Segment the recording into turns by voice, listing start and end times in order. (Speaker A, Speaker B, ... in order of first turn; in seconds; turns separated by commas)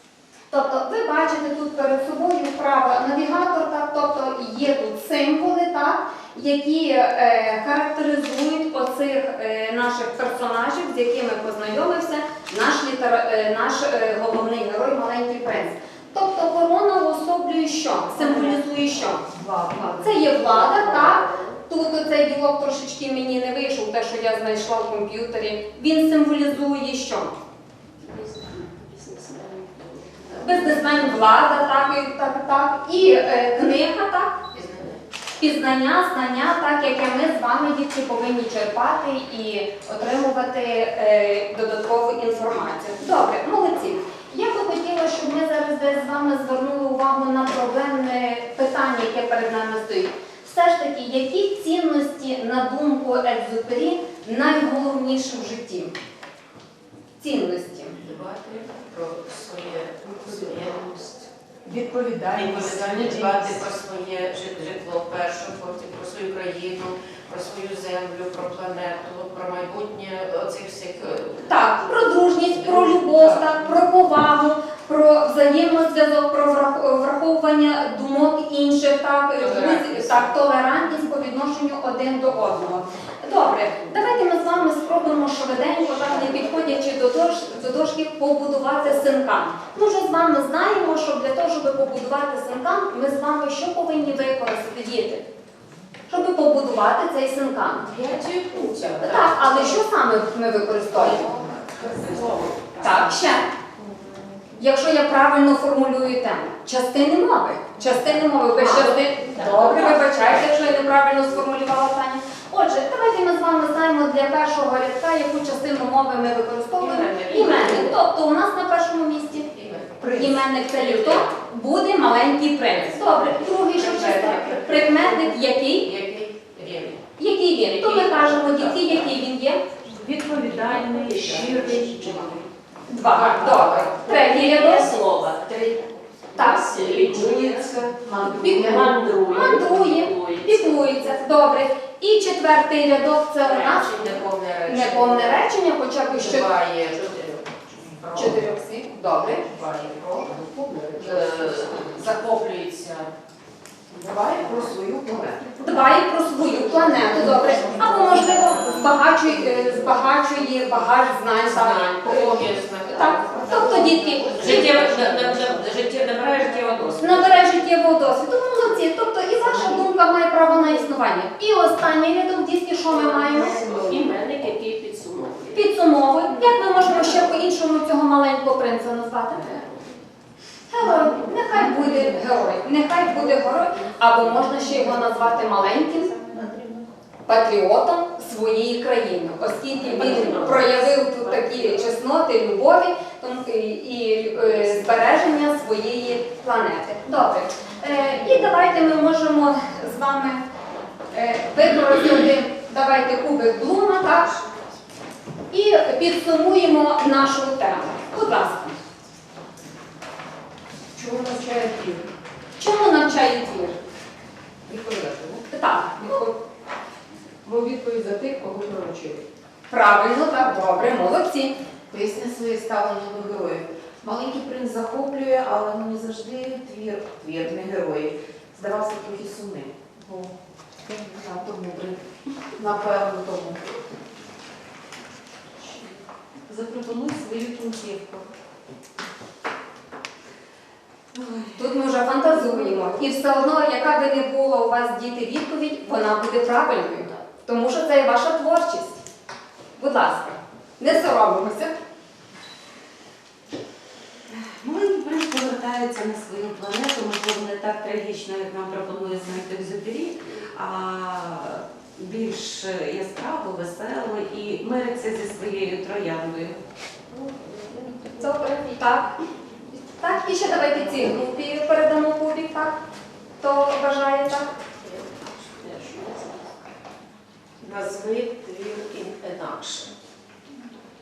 Speaker A: 0.5-19.3, Speaker B: 18.2-18.6, Speaker C: 19.3-20.2, Speaker A: 19.8-27.4, Speaker B: 20.4-21.6, Speaker B: 28.0-31.6, Speaker A: 30.4-34.4, Speaker D: 34.6-34.9, Speaker A: 35.4-55.9, Speaker A: 57.2-58.0, Speaker D: 58.0-61.3, Speaker C: 61.6-63.6, Speaker D: 62.3-71.7, Speaker A: 71.5-95.2, Speaker D: 72.4-73.6, Speaker D: 79.4-80.3, Speaker A: 96.1-97.9, Speaker D: 97.9-99.8, Speaker E: 98.7-99.3, Speaker A: 99.0-101.2, Speaker D: 101.0-103.0, Speaker E: 101.0-102.5, Speaker A: 102.8-103.5, Speaker A: 104.5-125.9, Speaker D: 108.5-110.0, Speaker D: 116.8-117.9, Speaker D: 119.5-119.9, Speaker D: 120.8-121.2, Speaker D: 122.8-127.0, Speaker E: 123.8-124.7, Speaker A: 127.2-129.6, Speaker D: 127.7-129.1, Speaker C: 129.9-132.4, Speaker D: 130.5-132.5, Speaker B: 131.5-132.2, Speaker A: 132.9-134.9, Speaker D: 133.1-134.0, Speaker B: 133.2-135.8, Speaker A: 136.3-136.6, Speaker B: 136.3-137.8, Speaker D: 136.7-137.7, Speaker E: 137.1-138.9, Speaker A: 138.2-146.5, Speaker B: 138.5-141.2, Speaker D: 143.4-145.5, Speaker D: 146.1-148.5, Speaker A: 148.1-149.4, Speaker D: 149.4-150.3, Speaker E: 149.7-151.8, Speaker D: 151.0-153.1, Speaker E: 153.9-155.5, Speaker A: 155.6-165.1, Speaker D: 157.4-158.8, Speaker D: 161.4-167.3, Speaker E: 164.8-165.6, Speaker A: 167.0-173.6, Speaker B: 172.9-177.3, Speaker A: 175.5-179.4, Speaker A: 180.7-186.1, Speaker A: 187.3-200.4, Speaker B: 189.9-191.7, Speaker A: 201.1-204.3, Speaker A: 205.5-208.8, Speaker E: 211.0-212.1, Speaker A: 212.6-213.8, Speaker E: 214.7-215.4, Speaker A: 215.5-216.3, Speaker E: 217.4-219.2, Speaker A: 219.7-221.5, Speaker E: 221.9-230.3, Speaker E: 231.2-232.0, Speaker E: 232.6-233.6, Speaker F: 236.5-238.3, Speaker F: 241.1-241.7, Speaker A: 241.6-249.0, Speaker A: 249.8-251.7, Speaker F: 254.3-266.6, Speaker A: 268.2-269.1, Speaker A: 269.8-272.8, Speaker A: 273.4-274.5, Speaker D: 274.8-275.2, Speaker B: 275.6-276.5, Speaker D: 277.6-279.9